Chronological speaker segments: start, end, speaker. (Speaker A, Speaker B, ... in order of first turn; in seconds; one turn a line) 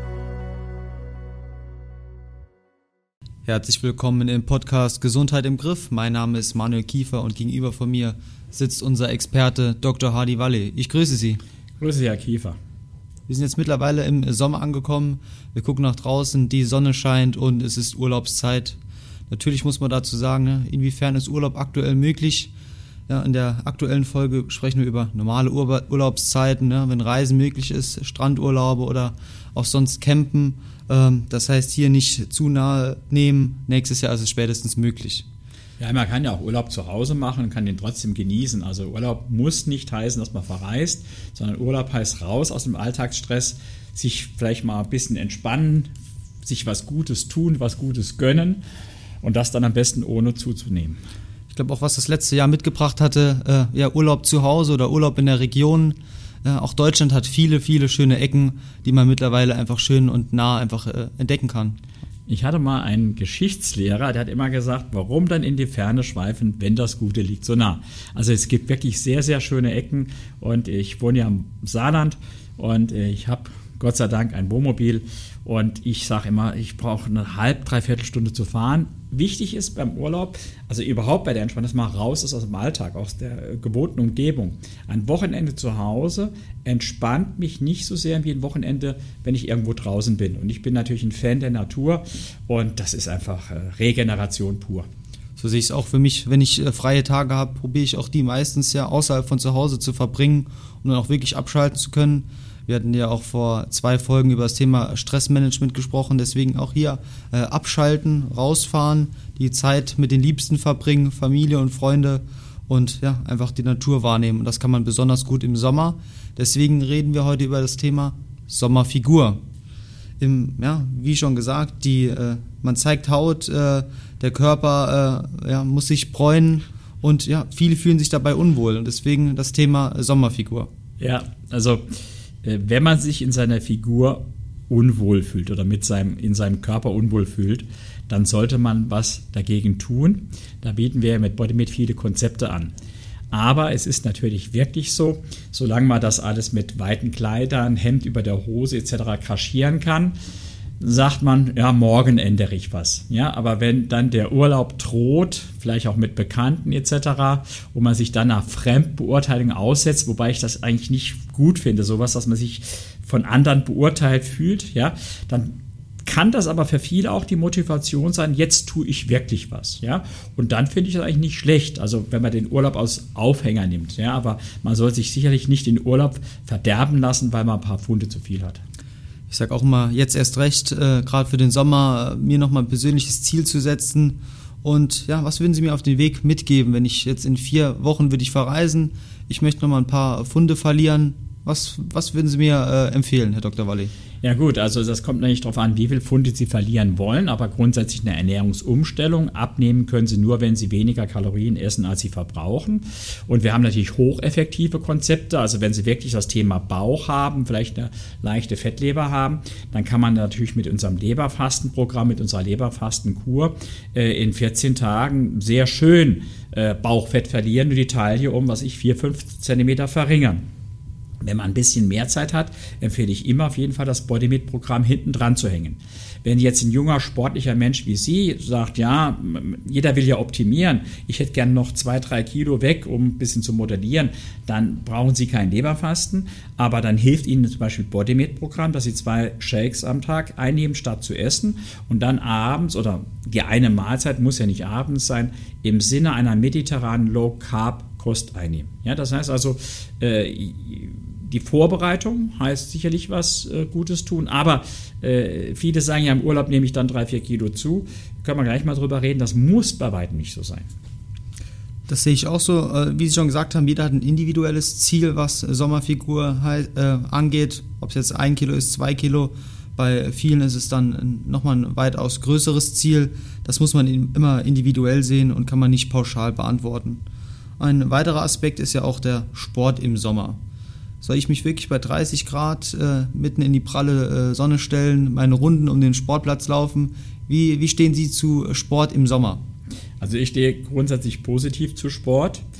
Speaker A: 3.5-11.4
Speaker B: 11.8-12.6
Speaker A: 13.3-18.8
Speaker A: 19.3-22.5
Speaker A: 23.1-35.2
Speaker B: 35.8-45.9
Speaker B: 46.4-48.6
Speaker B: 49.2-51.0
Speaker A: 51.5-61.8
Speaker B: 62.3-94.9
Speaker A: 95.4-119.4
Speaker A: 120.2-130.7
Speaker B: 131.0-131.8
Speaker B: 132.4-142.7
Speaker B: 143.3-150.2
Speaker B: 150.8-178.6
Speaker A: 179.3-193.9
Speaker B: 194.2-220.4
Speaker B: 221.2-260.7
Speaker A: 261.9-277.0
Speaker A: 277.6-280.4
Speaker A: 281.0-289.4
Speaker B: 290.0-292.4